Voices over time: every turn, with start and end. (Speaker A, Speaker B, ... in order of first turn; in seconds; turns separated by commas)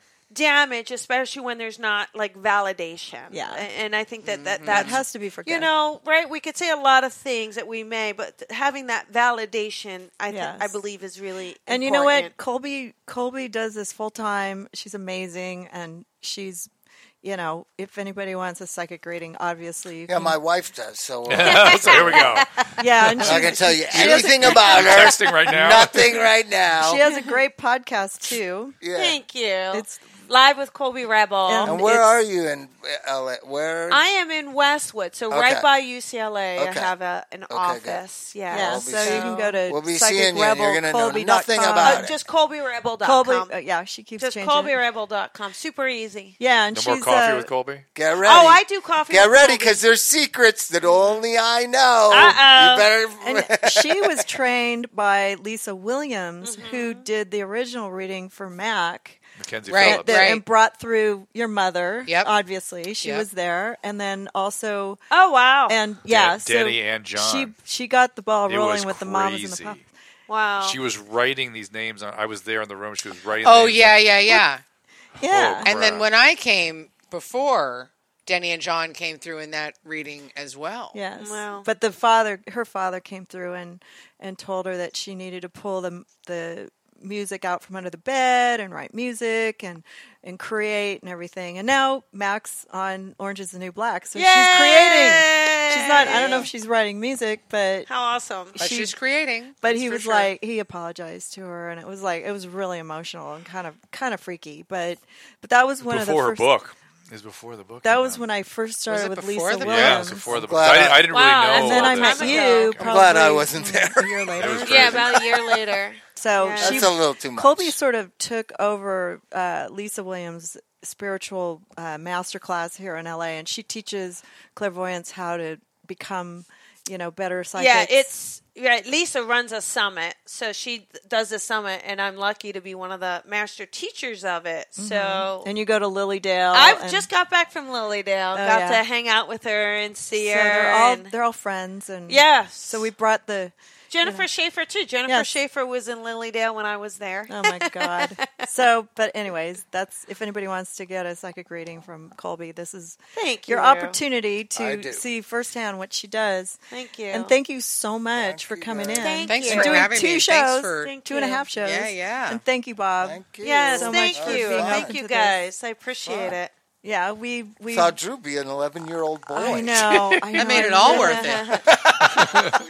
Speaker A: 0.3-12.3, Speaker B: 3.3-3.7, Speaker C: 4.2-5.0, Speaker B: 4.7-5.7, Speaker B: 10.3-10.8, Speaker B: 11.7-16.7, Speaker B: 17.2-20.4, Speaker D: 20.1-22.4, Speaker E: 21.3-26.1, Speaker A: 21.4-22.7, Speaker B: 22.8-25.1, Speaker D: 23.2-27.0, Speaker B: 26.8-28.8, Speaker D: 28.8-29.2, Speaker A: 28.9-31.9, Speaker B: 29.7-30.1, Speaker B: 31.5-32.2, Speaker D: 31.6-34.0, Speaker A: 33.9-39.6, Speaker D: 35.3-35.7, Speaker D: 36.6-36.9, Speaker D: 37.5-42.1, Speaker B: 38.5-42.1, Speaker A: 41.8-43.5, Speaker B: 43.0-44.8, Speaker A: 44.2-46.4, Speaker B: 46.4-47.5, Speaker E: 46.7-47.9, Speaker D: 47.9-54.3, Speaker A: 48.2-49.8, Speaker A: 52.1-52.9, Speaker B: 53.2-59.2, Speaker A: 56.4-57.1, Speaker E: 59.4-60.4, Speaker C: 59.7-60.4, Speaker B: 59.7-65.0, Speaker C: 62.1-62.3, Speaker A: 65.1-65.8, Speaker B: 65.7-69.8, Speaker E: 66.1-67.5, Speaker E: 68.5-69.8, Speaker A: 70.3-70.8, Speaker E: 70.6-74.2, Speaker C: 73.4-74.6, Speaker B: 75.2-75.7, Speaker E: 75.2-76.1, Speaker C: 75.6-81.0, Speaker B: 80.9-97.9, Speaker A: 81.2-81.7, Speaker A: 94.1-96.5, Speaker A: 97.9-98.6, Speaker B: 98.5-99.0, Speaker C: 98.6-100.3, Speaker B: 99.6-106.5, Speaker E: 105.9-108.2, Speaker B: 107.8-110.5, Speaker C: 108.9-110.2, Speaker E: 109.6-112.9, Speaker D: 110.3-111.1, Speaker A: 111.1-113.3, Speaker B: 111.5-115.0, Speaker D: 112.8-115.5, Speaker E: 114.4-115.1, Speaker A: 114.6-116.9, Speaker B: 116.2-128.1, Speaker D: 116.6-117.7, Speaker A: 127.6-135.5, Speaker B: 134.8-137.1, Speaker A: 136.5-141.1, Speaker B: 138.3-138.8, Speaker B: 140.1-144.3, Speaker A: 142.1-142.9, Speaker A: 143.9-148.5, Speaker B: 147.3-156.6, Speaker A: 153.1-154.0, Speaker D: 154.6-155.0, Speaker A: 156.7-157.3, Speaker B: 157.1-165.4, Speaker D: 158.2-159.3, Speaker A: 159.0-160.0, Speaker C: 159.3-160.9, Speaker A: 160.8-161.5, Speaker C: 161.6-162.4, Speaker D: 163.0-164.9, Speaker A: 163.4-166.5, Speaker D: 166.1-166.4, Speaker B: 166.8-168.0, Speaker D: 167.7-170.2, Speaker B: 169.3-171.6, Speaker C: 170.2-171.7, Speaker A: 170.8-171.8, Speaker D: 171.7-172.3, Speaker E: 172.2-172.5